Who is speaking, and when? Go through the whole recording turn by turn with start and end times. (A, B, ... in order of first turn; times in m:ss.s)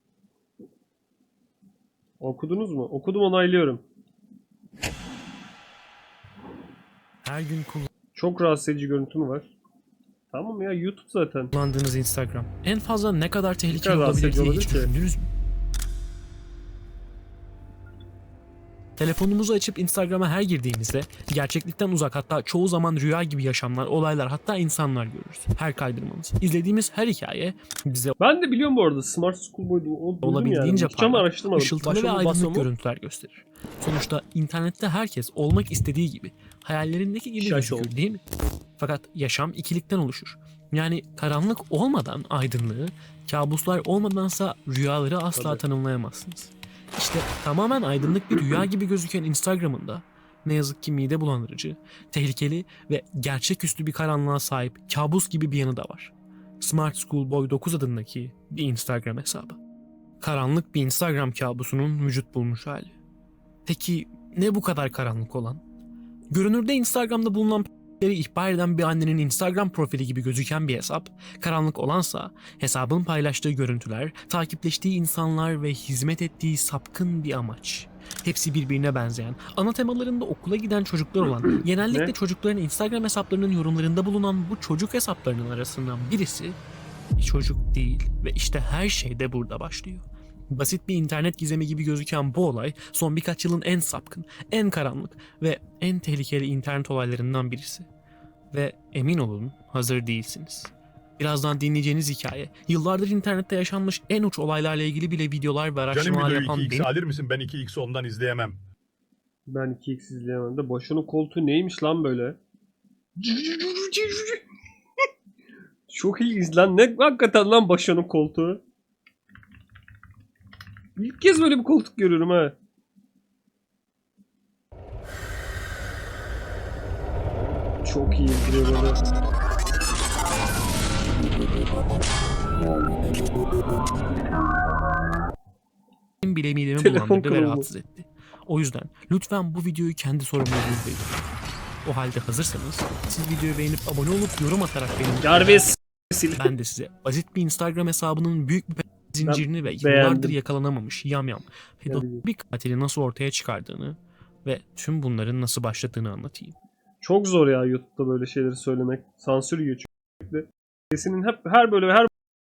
0:02.2-0:03.8 A
0:07.2-0:07.9 B
0:08.2-0:09.5 A
0:10.3-0:11.5 A
0:11.5-0:15.2 B
0:13.7-0:14.9 A
0:19.0-0:28.2 B
0:28.2-0:32.7 A
0:30.2-0:38.2 B
0:37.4-0:37.9 A
0:38.8-0:59.6 B
0:45.4-0:45.6 A
1:00.2-1:02.9 B
1:03.7-1:05.6 B
1:06.3-1:26.6 B
1:21.9-1:22.1 A
1:27.2-1:37.9 B
1:38.5-1:46.9 B
1:45.9-1:48.6 C
1:49.5-1:52.4 A
1:53.2-1:54.4 A
1:55.9-1:58.6 A
2:01.0-2:02.6 A
2:07.8-2:09.0 A
2:16.2-2:21.1 B
2:16.8-2:17.7 A
2:21.8-2:25.7 B
2:25.2-2:26.5 A
2:26.4-2:36.6 B
2:29.2-2:30.4 A
2:31.9-2:32.2 A
2:37.0-2:42.1 A